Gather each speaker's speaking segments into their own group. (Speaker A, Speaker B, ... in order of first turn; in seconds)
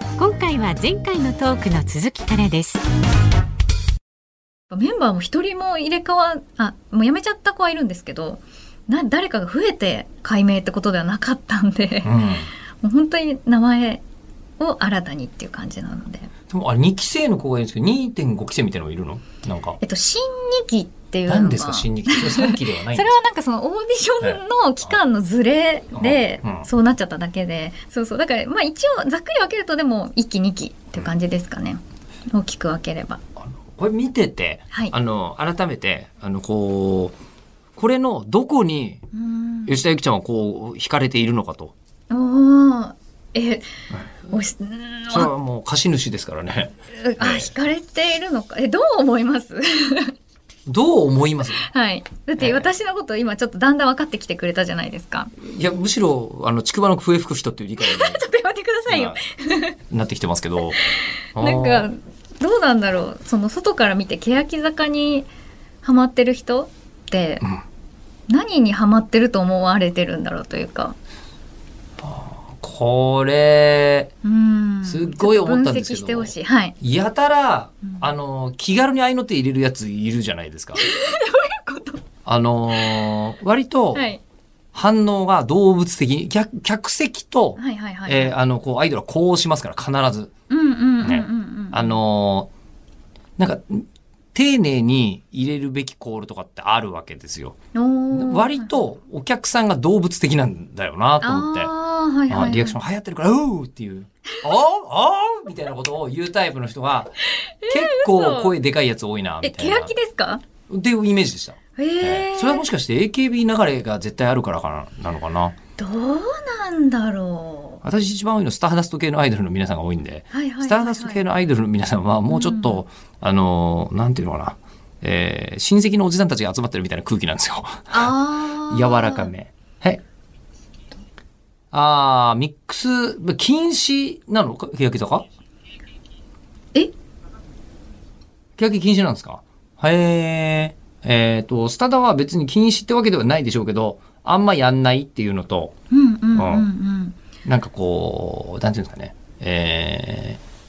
Speaker A: 0.2-2.8
Speaker B: 4.7-12.1, 12.8-14.0, 14.6-16.3, 19.8-33.2, 39.1-39.8, 42.1-43.7, 44.3-45.3, 46.9-50.1, 51.6-55.3, 57.8-59.8, 60.8-65.3, 65.8-67.5, 68.3-71.0, 74.2-76.8, 80.8-82.0, 82.8-83.1, 83.9-84.2, 87.6-88.3, 90.5-92.0, 97.7-98.7, 101.2-102.8, 107.3-108.5, 109.4-110.4, 111.8-112.7, 115.8-117.8, 120.3-121.2, 122.3-122.8, 127.9-129.3, 145.9-147.2
Speaker C: 12.0-12.5, 16.5-19.8, 21.3-23.2, 26.0-26.7, 33.4-37.1, 37.8-39.0, 39.7-41.7, 45.1-47.5, 50.7-51.7, 52.4-52.7, 55.4-58.2, 58.9-59.2, 59.9-61.9, 72.0-74.1, 74.8-80.8, 82.2-84.1, 84.7-90.3, 91.0-92.5, 93.4-97.6, 98.1-101.7, 102.3-107.2, 107.7-109.9, 110.7-115.6, 117.8-128.1, 128.7-130.0, 131.7-135.2, 138.6-145.8, 146.3-146.7, 147.4-150.4